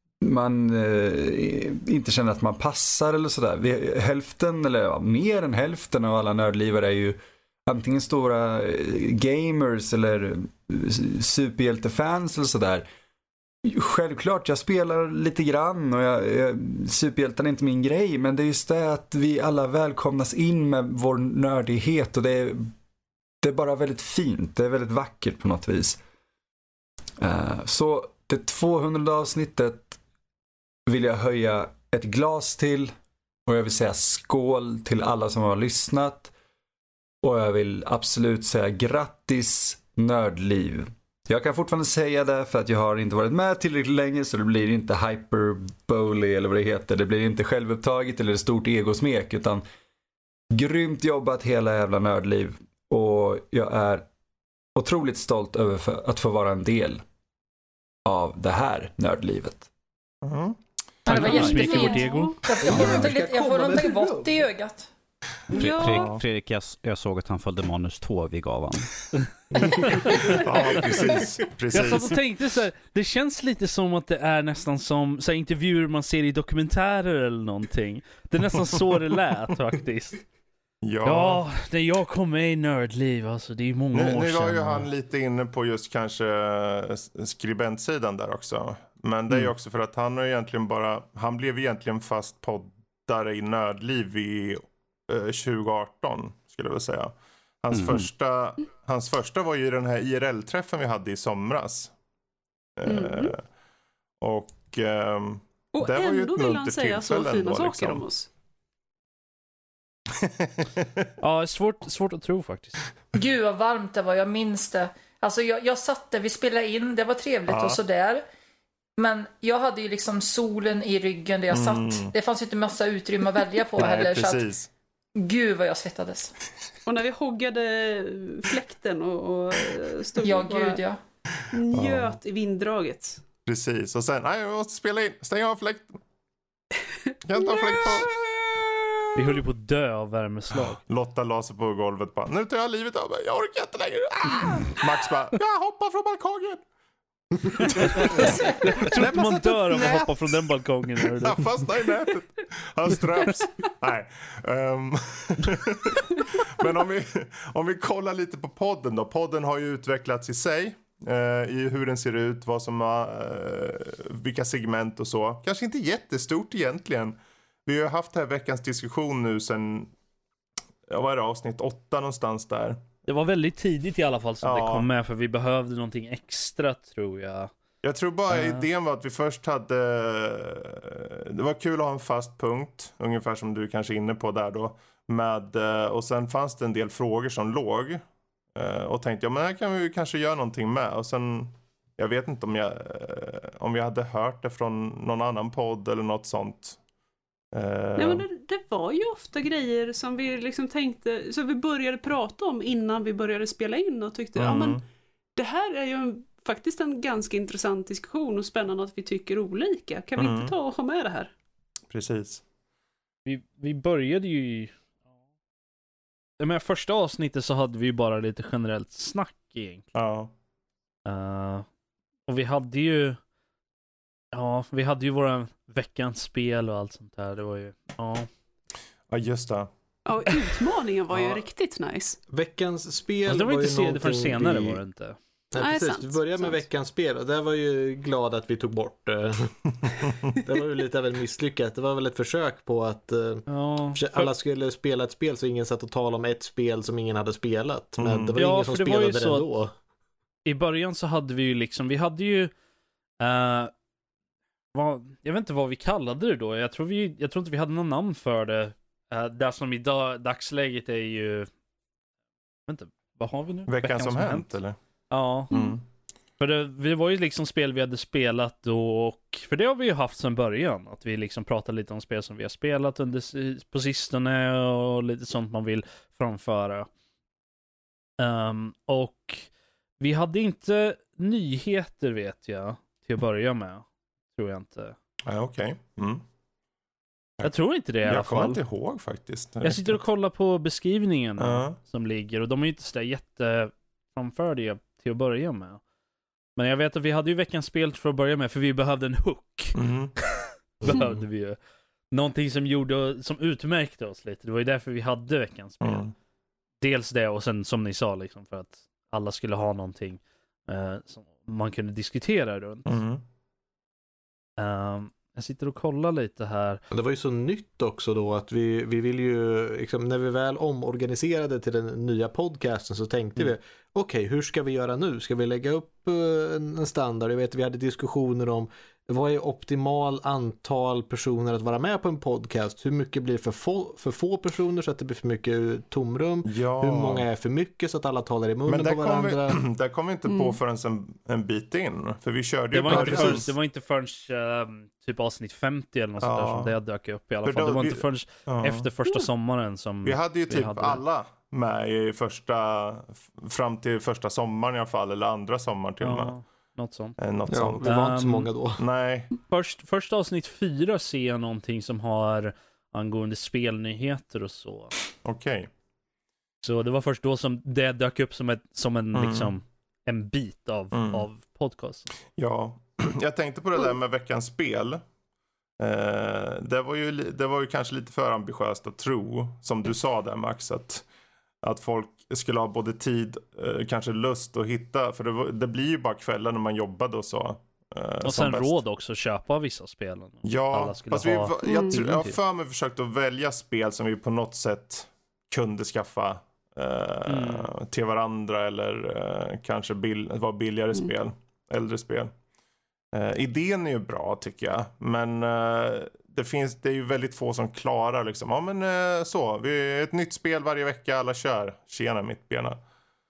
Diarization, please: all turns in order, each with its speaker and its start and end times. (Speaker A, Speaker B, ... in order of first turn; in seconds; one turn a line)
Speaker A: 0.2-7.2
Speaker A: 7.7-12.9
Speaker A: 13.7-22.7
Speaker A: 23.4-26.0
Speaker A: 27.2-30.0
Speaker A: 30.9-32.9
Speaker A: 33.5-36.3
Speaker A: 37.2-49.6
Speaker A: 50.5-54.1
Speaker A: 54.8-57.0
Speaker A: 58.1-59.7
Speaker B: 60.2-61.3
Speaker C: 61.1-62.3
Speaker D: 61.1-64.9
Speaker E: 61.2-61.9
Speaker F: 61.3-62.4
Speaker G: 62.6-64.4
Speaker F: 65.5-66.1
Speaker E: 65.5-69.0
Speaker B: 65.9-66.2
Speaker B: 70.4-72.2
Speaker C: 71.7-80.2
Speaker B: 80.8-81.4
Speaker C: 81.0-84.9
Speaker B: 83.9-101.9
Speaker E: 97.7-98.1
Speaker B: 102.8-103.4
Speaker F: 102.9-103.3
Speaker B: 104.2-108.0
Speaker F: 105.7-108.3
Speaker B: 110.2-110.9
Speaker C: 111.2-112.8
Speaker D: 113.2-118.2
Speaker B: 117.5-117.8
Speaker D: 119.0-124.5
Speaker B: 121.5-122.1
Speaker B: 123.8-124.7
Speaker D: 125.2-126.3
Speaker F: 126.9-130.8
Speaker D: 130.2-131.0
Speaker F: 131.5-133.2
Speaker B: 131.7-132.2
Speaker B: 133.5-136.0
Speaker B: 137.2-138.2
Speaker F: 137.4-138.1
Speaker C: 139.2-140.8
Speaker B: 140.6-146.7
Speaker C: 147.8-151.6
Speaker B: 147.8-148.2
Speaker B: 148.8-150.2
Speaker B: 151.2-169.9
Speaker B: 170.9-172.8
Speaker C: 173.1-177.5
Speaker B: 174.4-174.9
Speaker B: 177.8-188.0
Speaker C: 178.3-178.6
Speaker B: 188.6-196.8
Speaker B: 197.5-198.3
Speaker F: 198.0-204.8
Speaker B: 204.4-204.8
Speaker F: 205.4-211.3
Speaker B: 210.2-210.6
Speaker B: 211.9-212.4
Speaker C: 213.2-214.8
Speaker C: 216.4-219.9
Speaker B: 219.9-220.3
Speaker C: 221.1-221.7
Speaker C: 222.3-223.2
Speaker C: 224.3-228.3
Speaker B: 229.1-229.7
Speaker F: 230.1-232.2
Speaker G: 232.3-234.8
Speaker C: 233.3-235.2
Speaker G: 235.6-249.7
Speaker F: 235.6-236.6
Speaker C: 243.5-244.3
Speaker B: 248.0-248.3
Speaker C: 248.4-249.5
Speaker C: 250.5-252.5
Speaker C: 253.2-253.7
Speaker C: 254.7-261.5
Speaker C: 262.7-264.5
Speaker B: 263.7-264.8
Speaker C: 265.1-265.6
Speaker B: 265.5-265.8
Speaker C: 266.4-276.9
Speaker C: 278.2-279.5
Speaker C: 280.0-285.0
Speaker B: 285.2-286.2
Speaker B: 287.4-290.0
Speaker C: 287.4-288.6
Speaker C: 289.6-295.8
Speaker B: 291.4-291.8
Speaker C: 296.6-299.8
Speaker B: 299.7-300.1
Speaker C: 300.8-301.6
Speaker C: 302.1-306.1
Speaker B: 305.8-306.1
Speaker C: 306.8-313.0
Speaker B: 312.9-313.2
Speaker C: 314.6-316.8
Speaker G: 316.9-339.6
Speaker B: 336.4-337.3
Speaker B: 338.7-343.5
Speaker F: 340.3-340.6
Speaker C: 342.7-351.0
Speaker B: 346.2-346.8
Speaker B: 347.4-348.9
Speaker B: 350.0-356.4
Speaker C: 356.0-357.2
Speaker B: 357.2-357.9
Speaker G: 357.5-358.8
Speaker C: 357.8-358.5
Speaker B: 358.8-359.3
Speaker C: 359.5-364.9
Speaker B: 365.2-365.7
Speaker C: 366.6-372.1
Speaker B: 369.1-369.6
Speaker B: 370.9-371.3
Speaker B: 372.4-375.0
Speaker B: 375.8-381.1
Speaker B: 381.6-388.8
Speaker C: 388.2-392.4
Speaker B: 390.4-402.3
Speaker F: 391.6-392.0
Speaker C: 397.3-397.7
Speaker B: 403.1-412.8